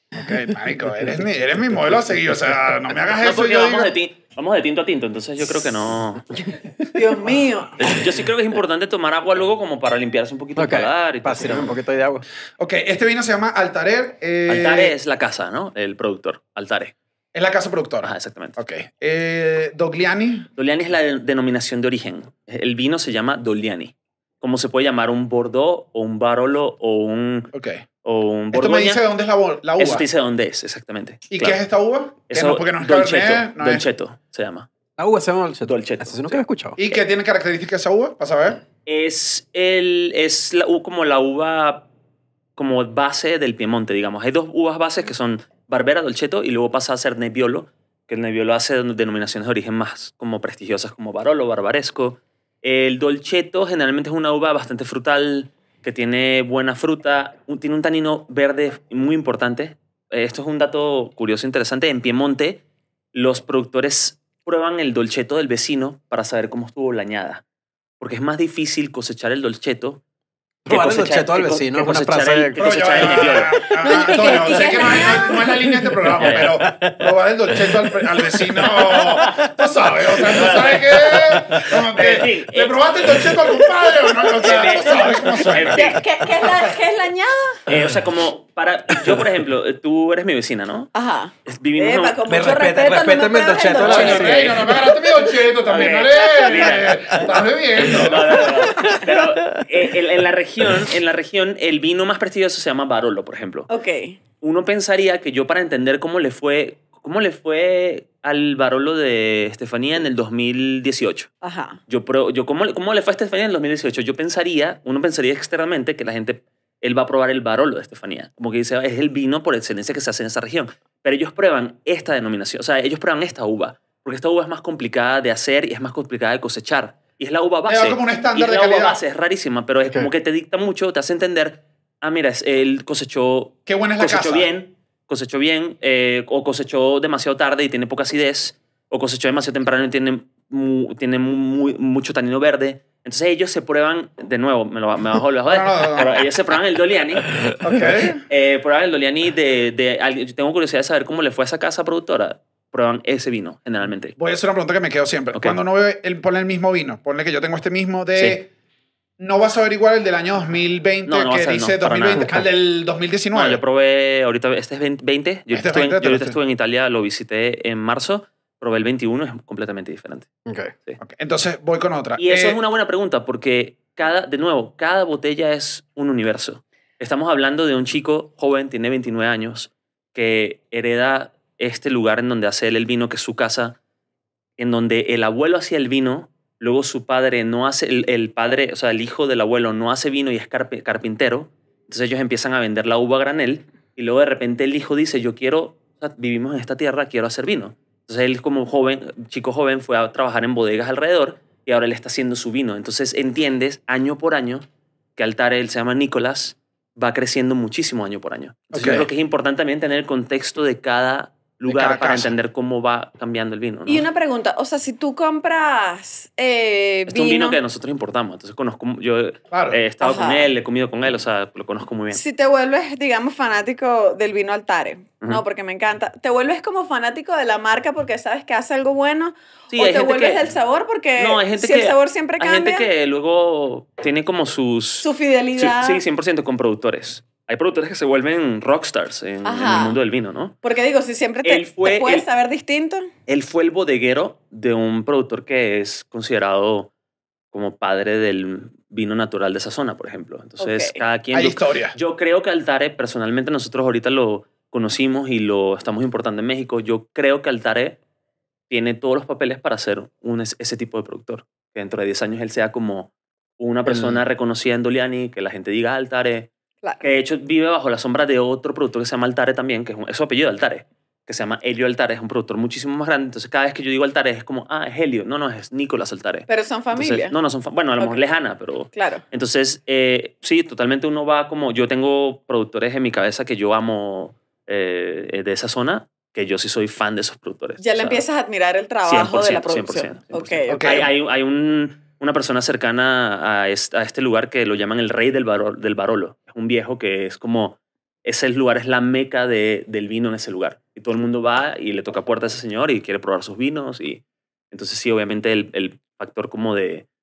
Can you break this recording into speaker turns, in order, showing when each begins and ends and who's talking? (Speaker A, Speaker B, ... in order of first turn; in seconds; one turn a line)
Speaker A: 0.1-3.9
Speaker B: 0.5-2.0
Speaker C: 3.2-6.2
Speaker B: 6.4-6.8
Speaker D: 6.9-7.9
Speaker C: 7.8-11.7
Speaker B: 10.6-12.2
Speaker A: 12.6-14.9
Speaker C: 14.5-16.9
Speaker A: 17.3-20.5
Speaker C: 18.0-18.6
Speaker C: 20.6-27.5
Speaker A: 27.5-27.8
Speaker C: 28.0-29.0
Speaker A: 28.5-30.1
Speaker C: 29.8-31.6
Speaker A: 31.3-33.8
Speaker C: 32.3-34.7
Speaker B: 35.0-36.8
Speaker C: 35.6-36.4
Speaker A: 36.8-38.6
Speaker C: 38.9-41.9
Speaker C: 42.5-62.6
Speaker C: 63.1-67.4
Speaker C: 68.0-70.0
Speaker B: 70.6-73.4
Speaker C: 70.7-73.6
Speaker A: 72.6-86.6
Speaker D: 73.7-75.4
Speaker B: 74.2-79.5
Speaker C: 76.2-76.6
Speaker B: 80.1-81.8
Speaker C: 80.3-82.8
Speaker B: 83.0-84.3
Speaker C: 84.4-86.0
Speaker D: 85.7-87.6
Speaker C: 87.7-90.9
Speaker D: 90.9-94.3
Speaker C: 91.5-92.2
Speaker B: 92.2-95.0
Speaker A: 93.8-98.4
Speaker C: 93.9-94.5
Speaker C: 95.7-97.2
Speaker C: 97.8-103.7
Speaker B: 98.8-99.6
Speaker D: 103.7-104.2
Speaker C: 104.4-111.3
Speaker D: 111.4-111.8
Speaker C: 111.9-147.5
Speaker A: 127.7-129.0
Speaker A: 133.7-134.5
Speaker A: 145.5-146.2
Speaker A: 147.6-148.2
Speaker C: 148.3-154.2
Speaker A: 154.2-158.5
Speaker C: 158.1-158.4
Speaker A: 159.2-163.6
Speaker C: 161.1-162.4
Speaker B: 162.2-162.4
Speaker C: 163.3-170.3
Speaker A: 165.5-166.4
Speaker B: 170.4-170.7
Speaker A: 171.0-172.6
Speaker C: 172.2-183.8
Speaker C: 184.6-214.0
Speaker A: 208.7-209.1
Speaker A: 211.7-212.3
Speaker D: 213.8-217.6
Speaker C: 217.1-222.2
Speaker A: 219.5-219.8
Speaker D: 220.0-220.5
Speaker D: 222.1-232.9
Speaker C: 229.7-230.4
Speaker C: 231.2-240.5
Speaker D: 235.0-236.0
Speaker D: 239.4-240.0
Speaker D: 240.6-243.1
Speaker C: 241.4-242.3
Speaker C: 243.3-246.9
Speaker C: 247.5-258.0
Speaker D: 250.6-251.0
Speaker A: 251.3-251.9
Speaker C: 258.7-266.5
Speaker C: 267.0-288.2
Speaker D: 276.5-277.4
Speaker D: 278.9-279.2
Speaker D: 287.8-291.1
Speaker C: 289.0-307.1
Speaker A: 290.7-291.1